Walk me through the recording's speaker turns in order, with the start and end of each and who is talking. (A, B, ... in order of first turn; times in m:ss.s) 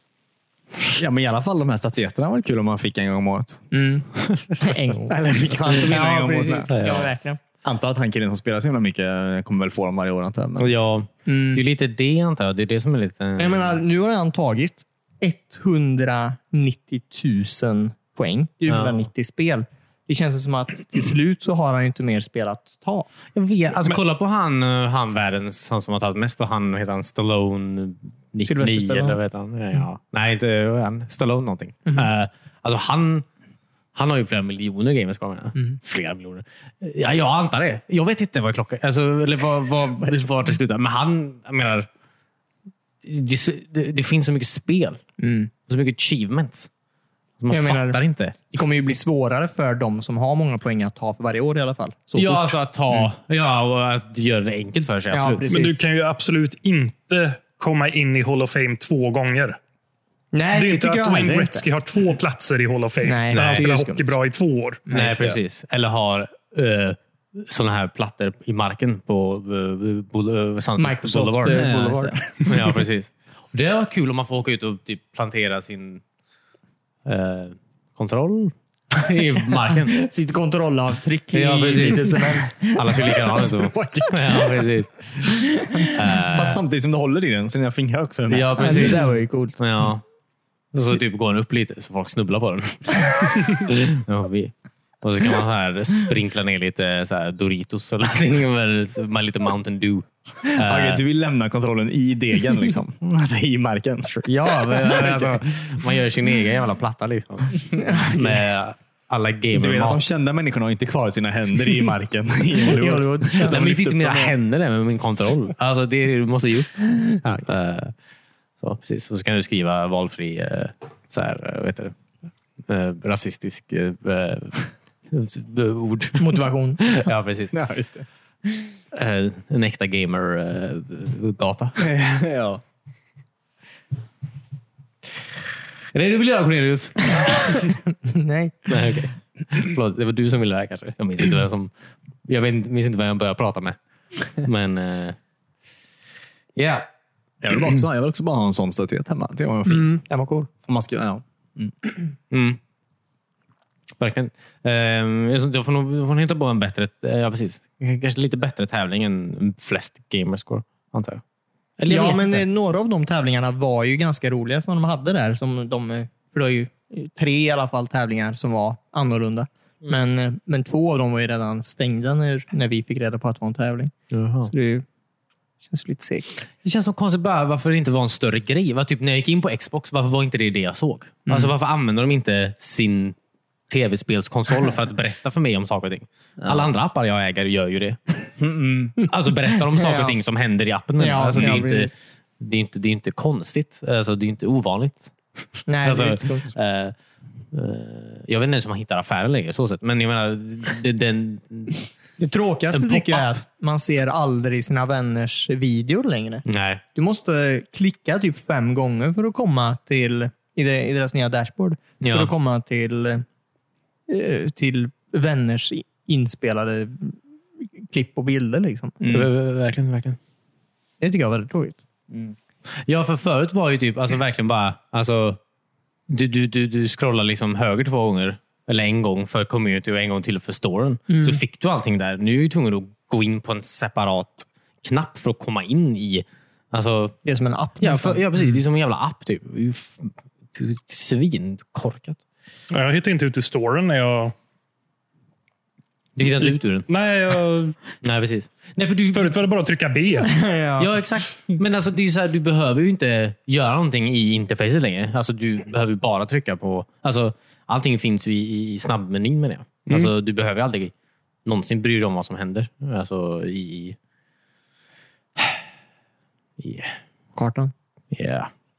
0:00.9-0:03.6 A
0:03.7-0:07.4 B
0:05.1-0:06.7 A
0:06.7-0:07.1 C
0:07.6-0:10.7 A
0:10.6-0:13.8 C
0:11.2-0:11.6 B
0:13.4-0:23.1 B
0:18.7-0:19.0 C
0:23.3-0:33.2 C
0:28.4-0:29.2 B
0:33.9-0:41.9 C
0:43.0-0:45.0 C
0:45.2-0:45.5 B
0:45.7-0:46.7 C
0:47.4-0:48.4 C
0:47.5-0:48.0 B
0:48.5-0:53.0 B
0:52.2-0:55.5 C
0:55.1-0:55.8 B
0:55.5-0:59.6 D
1:00.3-1:01.6 B
1:00.5-1:04.8 D
1:03.0-1:04.0 B
1:03.3-1:03.6 C
1:04.9-1:05.3 B
1:04.9-1:11.7 C
1:10.8-1:12.2 B
1:11.5-1:12.3 A
1:12.4-1:16.0 C
1:17.0-1:20.1 C
1:19.9-1:23.1 B
1:21.3-1:26.6 C
1:23.6-1:24.5 A
1:26.2-1:29.1 A
1:28.3-1:30.0 C
1:28.6-1:29.6 B
1:30.7-1:41.0 C
1:40.6-1:45.3 A
1:44.2-1:50.0 C
1:47.8-1:48.4 B
1:49.5-1:54.3 A
1:52.7-1:53.7 B
1:53.3-1:57.9 C
1:58.6-2:01.9 C
2:02.7-2:07.5 C
2:06.2-2:06.8 B
2:07.5-2:08.1 A
2:08.9-2:11.8 C
2:11.8-2:12.6 A
2:15.9-2:17.7 C
2:17.6-2:18.8 B
2:18.7-2:21.7 C
2:22.3-2:23.8 C
2:24.3-2:25.2 C
2:26.6-2:26.9 C
2:27.4-2:29.9 A
2:29.6-2:30.5 B
2:30.6-2:31.8 A
2:32.3-2:32.6 C
2:34.0-2:41.2 C
2:41.8-2:42.4 C
2:41.8-2:53.9 B
2:54.1-2:54.5 C
2:54.5-2:54.8 B
2:55.6-2:56.4 B
2:56.6-3:03.2 C
3:01.3-3:01.5 B
3:03.7-3:08.3 C
3:06.4-3:06.7 A
3:08.4-3:08.9 A
3:09.0-3:15.1 C
3:09.7-3:10.2 B
3:11.0-3:11.9 B
3:15.7-3:16.5 B
3:15.8-3:16.9 C
3:17.5-3:21.8 C
3:22.2-3:26.4 B
3:22.7-3:23.4 C
3:26.4-3:26.8 C
3:26.9-3:33.2 B
3:32.0-3:32.3 C
3:34.1-3:37.2 B
3:37.8-3:39.0 B
3:39.0-3:39.3 A
3:39.1-3:40.2 C
3:41.0-3:41.8 B
3:42.9-3:45.4 C
3:46.1-3:57.2 C
3:51.1-3:51.4 B
3:57.2-3:58.2 B
3:57.8-4:02.2 C
4:02.7-4:04.3 D
4:06.2-4:06.9 C
4:06.4-4:07.8 D
4:08.0-4:09.4 C
4:09.1-4:10.4 D
4:10.2-4:10.9 B
4:10.8-4:20.9 C
4:21.4-4:24.0 C
4:26.6-4:26.9 C
4:27.4-4:27.7 B
4:28.1-4:28.5 C